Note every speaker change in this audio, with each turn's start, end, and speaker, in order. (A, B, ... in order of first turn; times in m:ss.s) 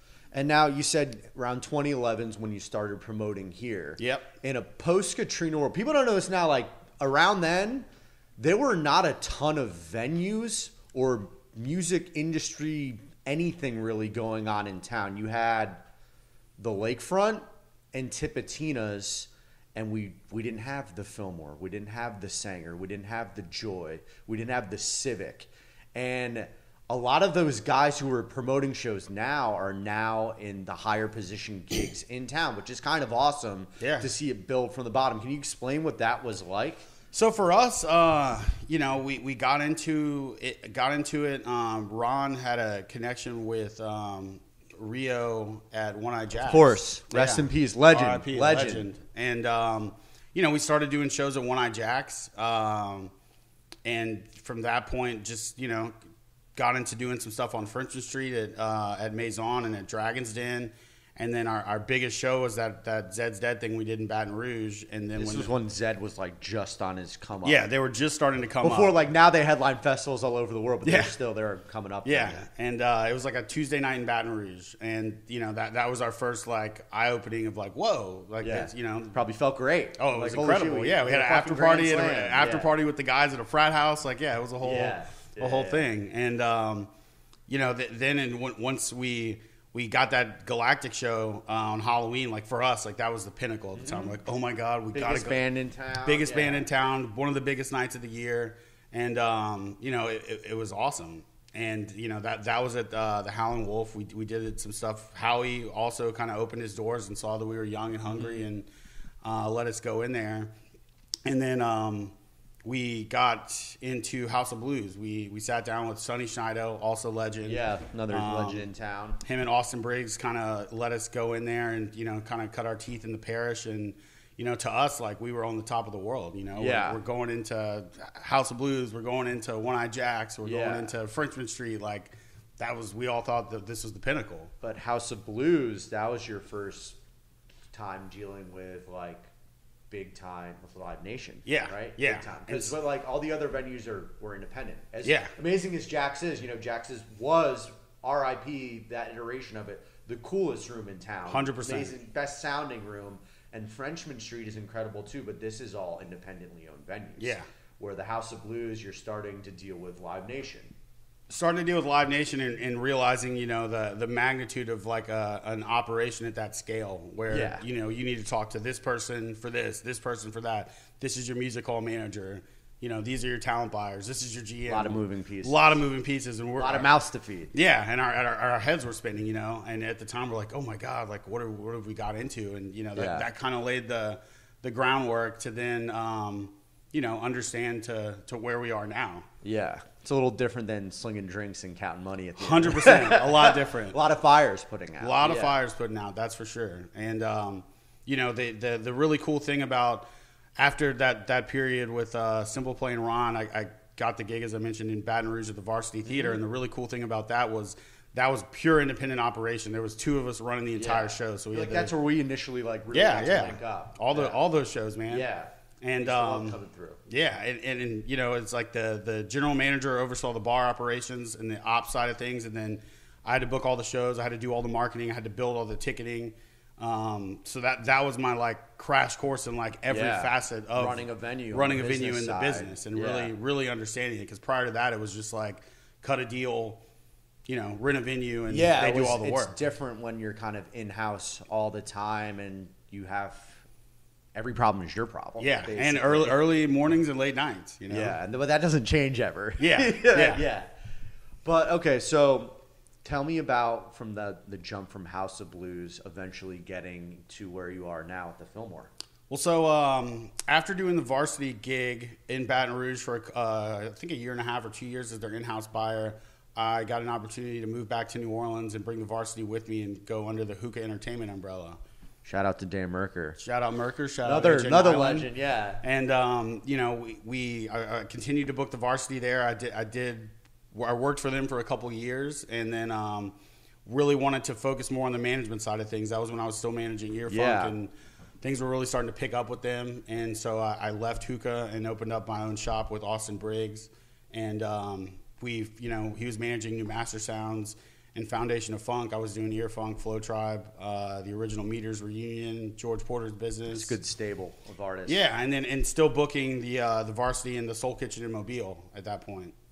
0:00.3-0:07.9 A
0:04.0-0:04.3 B
0:08.4-0:15.8 A
0:16.6-0:36.8 A
0:33.8-0:34.1 B
0:37.1-0:53.1 B
0:46.5-0:48.9 A
0:53.8-0:55.9 B
0:56.5-1:05.5 B
1:05.2-1:07.7 A
1:07.4-1:08.9 B
1:08.6-1:12.4 A
1:10.8-1:11.1 B
1:12.0-1:19.2 B
1:18.4-1:22.7 A
1:20.0-1:26.9 B
1:24.6-1:25.9 A
1:27.5-1:35.4 B
1:33.8-1:34.2 A
1:34.9-1:36.7 A
1:36.0-1:48.7 B
1:48.1-1:48.4 A
1:49.2-1:50.5 B
1:51.2-1:58.6 B
1:57.4-1:59.2 A
1:59.2-2:14.5 B
2:06.6-2:07.0 A
2:10.4-2:10.9 A
2:14.6-2:17.0 A
2:17.7-2:19.3 A
2:19.9-2:40.7 A
2:21.4-2:22.7 B
2:25.0-2:25.3 B
2:31.3-2:32.0 B
2:37.2-2:37.5 B
2:41.3-2:56.9 B
2:47.3-2:47.6 A
2:54.7-2:55.8 A
2:56.6-2:57.5 A
2:57.5-3:09.3 B
3:03.0-3:03.3 A
3:09.4-3:15.6 A
3:12.4-3:14.0 B
3:15.0-3:20.0 B
3:20.6-3:31.9 B
3:26.1-3:26.4 A
3:30.8-3:34.4 A
3:32.9-3:35.3 B
3:35.1-3:37.0 A
3:35.8-3:56.8 B
3:49.9-3:53.3 A
3:57.4-3:59.6 B
3:58.5-4:03.6 A
4:04.3-4:06.4 A
4:05.4-4:08.2 B
4:07.9-4:10.7 A
4:09.6-4:10.4 B
4:11.4-4:18.9 A
4:19.3-4:31.8 B
4:32.2-4:33.4 A
4:33.4-4:35.3 B
4:34.2-4:35.8 A
4:35.8-5:03.9 B
4:47.3-4:47.7 A
5:03.7-5:05.2 A
5:05.0-5:09.5 B